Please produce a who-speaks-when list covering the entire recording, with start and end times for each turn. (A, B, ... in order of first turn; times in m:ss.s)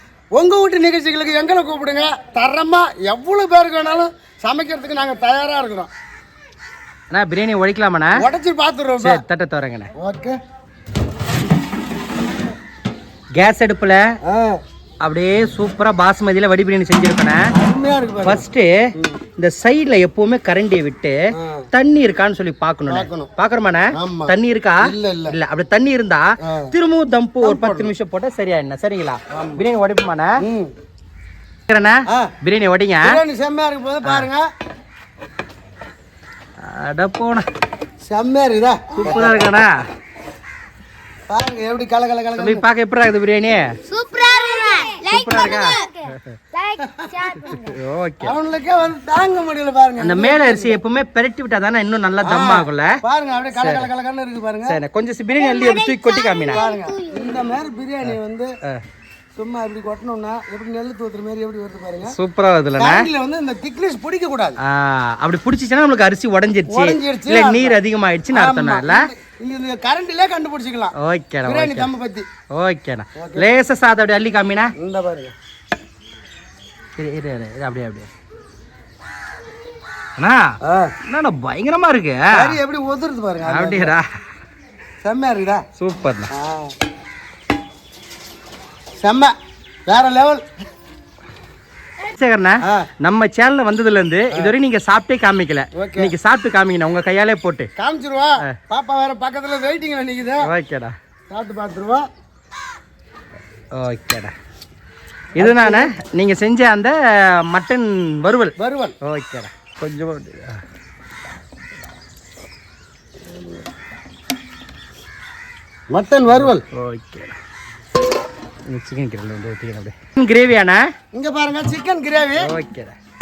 0:00.3-0:05.9 A
0:07.1-0:08.2 B
0:08.2-0:09.2 A
0:09.0-0:09.9 B
0:10.0-0:10.3 A
0:13.3-0:14.0 B
0:14.2-0:14.6 A
0:15.0-0:17.5 B
0:17.5-0:18.4 A
0:18.2-0:21.2 B
0:21.3-0:21.6 A
0:21.7-0:30.3 B
0:22.9-0:23.3 A
0:23.9-0:25.4 A
0:26.4-0:26.7 A
0:27.4-0:27.9 A
0:29.3-0:29.6 A
0:30.4-0:30.7 A
0:31.7-0:33.2 B
0:33.0-0:34.4 A
0:34.0-0:34.3 B
0:36.6-0:37.4 B
0:38.0-0:39.4 A
0:38.9-0:39.8 B
0:41.3-0:42.6 A
0:42.4-0:43.7 B
0:43.9-0:47.8 C
0:45.0-0:45.8 B
0:47.5-0:48.3 B
0:48.2-0:50.8 A
0:50.0-0:52.9 B
0:52.2-0:54.8 A
0:53.6-0:53.9 B
0:54.7-0:56.6 B
0:55.3-0:57.4 C
0:56.5-0:58.5 A
0:58.0-0:58.8 B
0:59.4-1:02.2 A
1:02.1-1:03.1 B
1:02.8-1:04.6 A
1:04.6-1:09.1 B
1:06.7-1:07.8 A
1:08.3-1:10.9 A
1:11.0-1:11.9 B
1:11.4-1:12.2 A
1:12.5-1:14.7 B
1:13.2-1:13.5 A
1:14.8-1:15.3 A
1:17.0-1:18.1 B
1:20.2-1:22.6 B
1:20.6-1:20.9 A
1:22.3-1:23.9 A
1:23.4-1:24.1 B
1:25.0-1:25.6 A
1:25.8-1:26.3 B
1:26.3-1:26.7 A
1:29.0-1:29.3 A
1:29.9-1:30.4 A
1:32.0-1:37.7 B
1:35.7-1:36.1 A
1:37.8-1:40.5 A
1:40.4-1:40.9 B
1:41.3-1:42.0 A
1:43.7-1:44.3 B
1:45.4-1:46.9 B
1:45.4-1:45.9 A
1:47.5-1:50.6 B
1:48.6-1:48.9 A
1:55.9-1:56.6 A
1:56.3-1:57.3 B
1:58.7-2:00.8 B
2:01.1-2:02.5 A
2:02.4-2:02.9 B